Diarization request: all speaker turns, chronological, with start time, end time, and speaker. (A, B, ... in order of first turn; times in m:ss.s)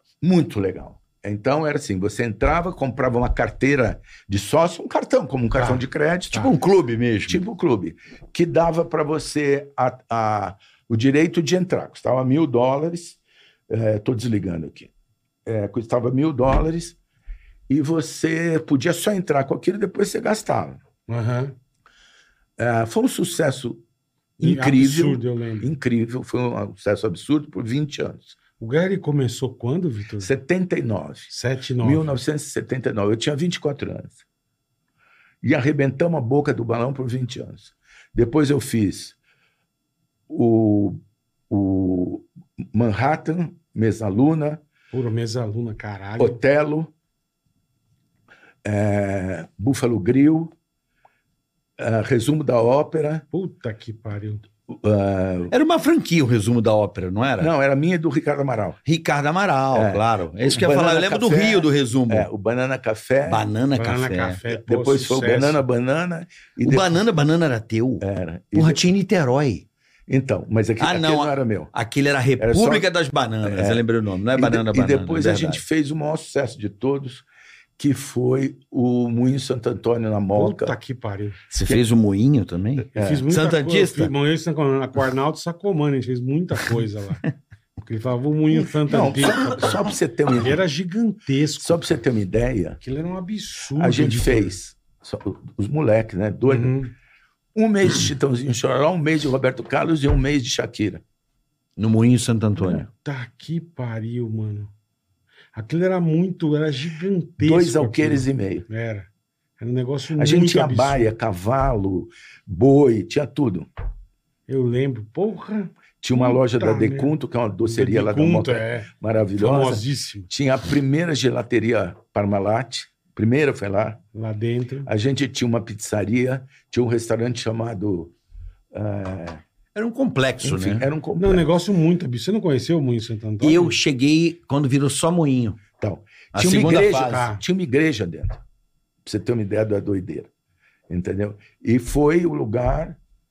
0:00.2-0:06.6 A
0:05.6-0:05.8 B
0:06.3-0:07.4 C
0:07.3-0:14.9 A
0:15.5-0:17.0 A
0:17.7-0:20.8 A
0:21.1-0:21.6 B
0:22.6-0:23.8 A
0:24.4-0:28.4 A
0:24.4-0:25.7 B
0:28.6-0:30.3 B
0:30.2-0:34.2 A
0:31.3-0:32.1 B
0:35.4-0:39.2 A
0:40.3-0:41.0 A
0:41.5-0:44.6 A
0:44.9-0:46.4 B
0:46.2-0:46.9 A
0:48.6-0:50.5 A
0:51.8-0:53.2 A
0:53.3-0:54.4 B
0:54.7-0:55.5 A
0:55.5-0:57.5 C
0:57.4-0:58.8 A
0:58.9-1:02.3 C
0:59.7-1:03.4 A
1:03.3-1:04.4 C
1:03.8-1:05.6 B
1:04.5-1:07.0 A
1:06.6-1:09.7 C
1:08.0-1:08.8 A
1:10.1-1:11.7 A
1:10.8-1:15.6 C
1:12.4-1:12.9 A
1:13.4-1:13.8 A
1:14.3-1:17.2 A
1:17.8-1:20.8 A
1:20.4-1:21.4 B
1:21.5-1:24.1 C
1:23.0-1:23.3 A
1:23.0-1:27.2 B
1:27.8-1:31.9 B
1:28.6-1:30.6 A
1:31.6-1:32.8 A
1:32.8-1:34.6 B
1:33.8-1:36.8 A
1:36.4-1:36.9 B
1:37.6-1:41.0 A
1:41.8-1:42.8 C
1:42.6-1:42.9 A
1:43.0-1:44.7 B
1:45.6-1:49.1 B
1:47.4-1:48.7 A
1:49.6-1:51.1 B
1:50.2-1:53.7 A
1:54.5-1:57.2 B
1:56.0-2:04.0 A
1:57.7-2:00.3 B
2:04.1-2:04.9 B
2:04.9-2:08.1 A
2:08.7-2:09.4 A
2:09.8-2:10.9 C
2:10.4-2:11.5 A
2:11.2-2:13.8 B
2:13.4-2:15.6 C
2:15.8-2:18.4 A
2:16.3-2:17.3 C
2:17.0-2:17.4 B
2:19.0-2:20.3 A
2:20.9-2:23.0 A